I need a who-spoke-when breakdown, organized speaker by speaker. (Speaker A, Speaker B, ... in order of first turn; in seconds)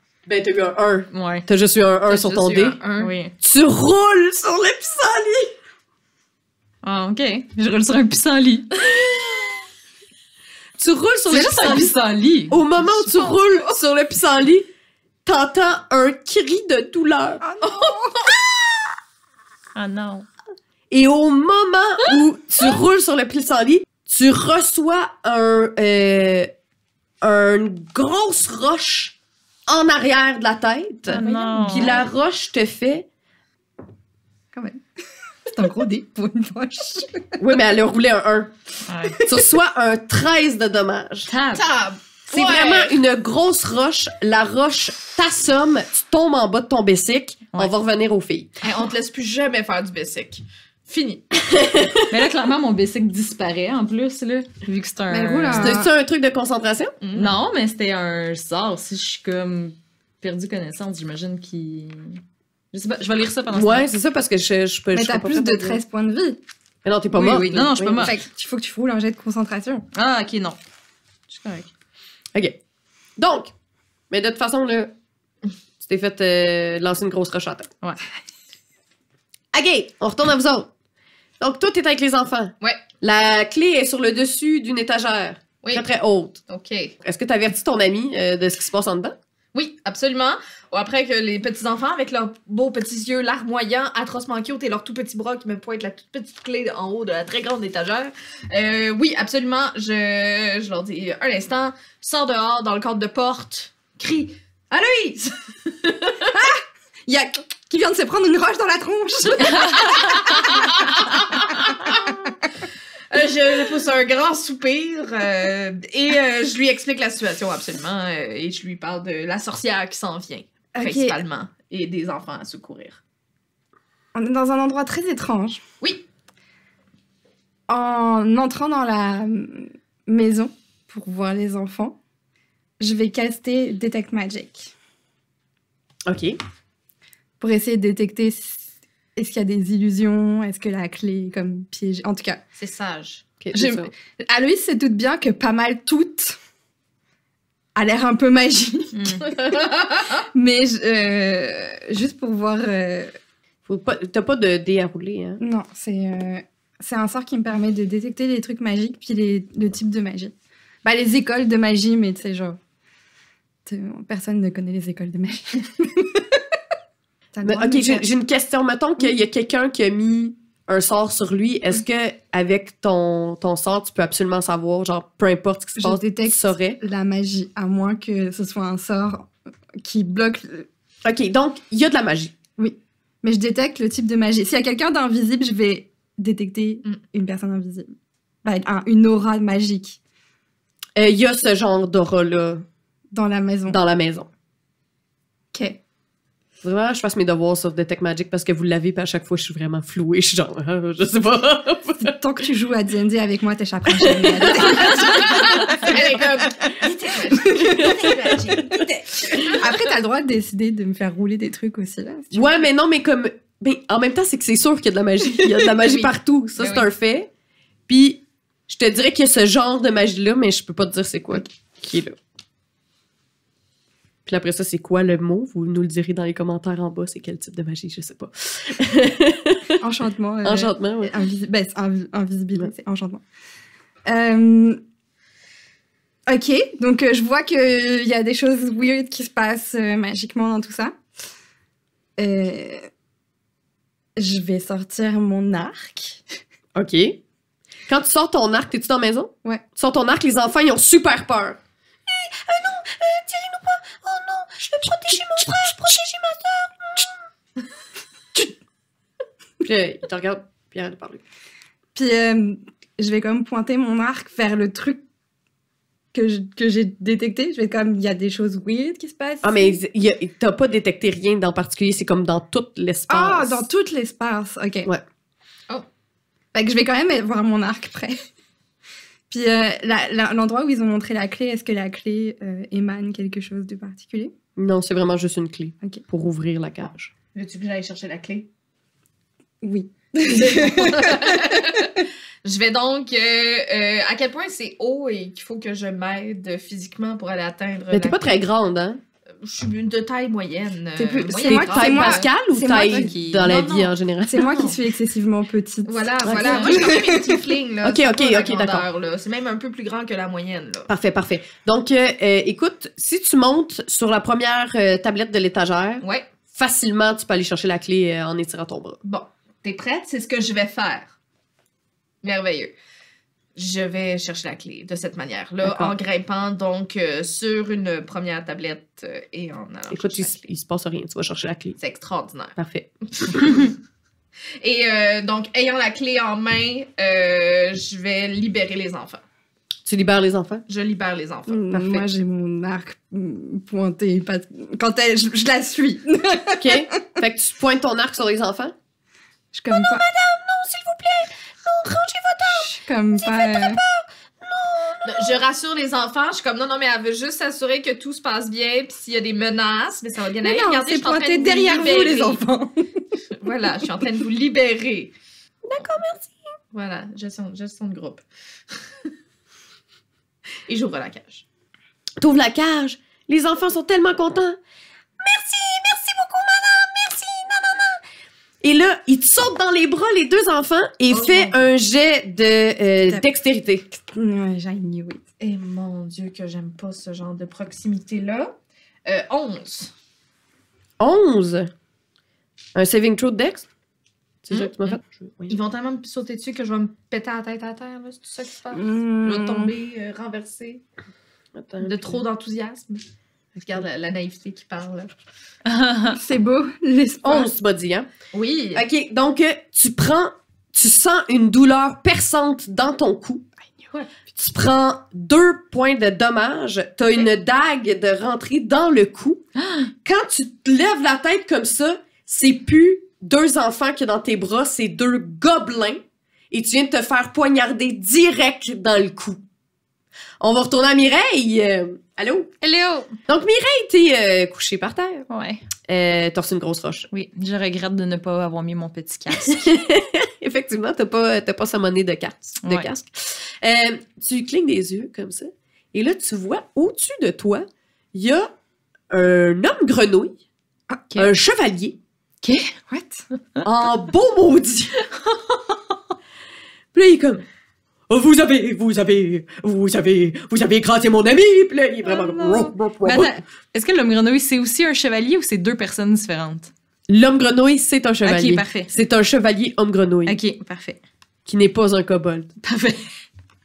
Speaker A: 0.3-2.8, 3.4-5.5, 10.8-11.9, 12.5-14.7, 15.2-17.4, 20.9-26.5, 27.2-29.1, 29.7-33.1, 37.4-38.5, 39.2-41.3, 42.3-48.5, 51.5-52.1, 55.6-56.9, 63.5-65.8, 66.8-68.1, 73.2-73.5, 74.1-74.9, 75.8-77.7, 79.5-80.7, 81.4-86.4, 87.0-89.2, 136.1-136.4, 143.4-143.9, 153.7-155.4, 167.4-176.8, 181.1-182.3, 191.0-192.6, 193.7-194.3, 196.6-202.2, 207.5-209.6, 212.3-217.3, 217.9-222.2, 224.3-229.8, 230.4-231.1, 246.8-247.2, 247.9-257.1, 259.6-261.2, 269.4-273.6, 284.6-287.1, 297.9-299.0, 301.5-304.6, 306.2-306.8, 307.8-308.9, 310.9-319.0, 325.6-325.9, 329.9-331.8, 332.6-333.6, 339.9-340.6, 346.6-348.7, 349.7-355.3, 365.6-366.4, 372.2-374.6, 375.2-378.0, 378.6-383.9, 391.0-391.7, 392.8-393.7, 394.4-395.6, 401.6-402.2, 407.2-408.1, 408.7-413.5, 414.3-419.4, 420.0-429.4, 430.4-432.5, 433.3-435.3, 435.9-437.1, 439.4-448.5, 449.1-450.4, 451.2-452.0, 453.6-455.1, 456.9-457.4, 458.1-463.3, 467.1-470.4, 471.5-472.5
Speaker B: 1.1-1.4, 3.0-3.3, 6.8-8.8, 11.3-12.6, 19.8-20.3, 31.1-32.0, 38.9-39.2, 41.3-41.6, 52.1-55.8, 57.1-63.9, 67.1-68.2, 69.9-70.6, 71.3-71.7, 109.5-110.2, 148.9-149.3, 302.7-303.8, 405.6-406.2, 432.6-433.1, 435.3-435.6, 437.1-439.8, 442.6-442.9, 452.4-452.7, 462.0-466.7, 468.2-468.9, 470.3-471.0, 472.6-473.1
Speaker C: 2.1-3.1, 17.6-18.2, 41.5-43.0, 48.6-51.2, 57.0-57.4, 86.5-87.0, 89.5-106.3, 110.0-112.3, 113.1-123.0, 142.6-143.3, 149.3-150.3, 204.6-208.9, 215.8-216.9, 287.3-288.5, 290.2-298.3, 299.4-302.3, 303.4-304.8, 305.9-310.9, 316.0-316.3, 319.0-321.1, 322.2-322.7, 323.6-330.5, 331.8-332.6, 333.2-333.7, 334.6-339.2, 340.7-342.1, 355.1-362.4, 363.4-365.1, 366.7-369.1, 370.7-371.4, 381.1-381.7, 385.4-388.5, 389.1-389.9, 395.5-400.8, 401.8-403.0, 403.6-405.1, 408.3-408.8
Speaker D: 17.4-18.2, 31.2-32.0, 34.5-34.8, 35.5-37.4, 55.1-55.9, 64.9-66.4, 68.0-69.9, 106.2-110.3, 120.8-121.2, 124.1-125.6, 127.7-132.0, 132.8-134.7, 137.4-142.4, 143.5-146.4, 147.8-149.7, 150.3-153.2, 155.4-162.6, 163.7-166.6, 167.3-168.1, 175.8-180.7, 182.6-187.9, 188.4-190.0, 193.1-193.8, 195.5-195.8, 202.0-206.3, 206.8-208.9, 209.5-212.5, 229.8-233.2, 234.1-234.8, 236.3-240.9, 242.2-242.9, 244.2-246.2, 261.9-265.0, 266.1-269.8, 273.1-274.9, 276.5-278.2, 279.3-284.3, 289.6-291.8, 301.0-303.1, 304.3-307.4, 341.5-346.9, 349.5-350.0, 352.5-353.8, 360.4-363.2, 383.9-385.2, 398.7-399.7, 406.1-407.5, 452.9-453.2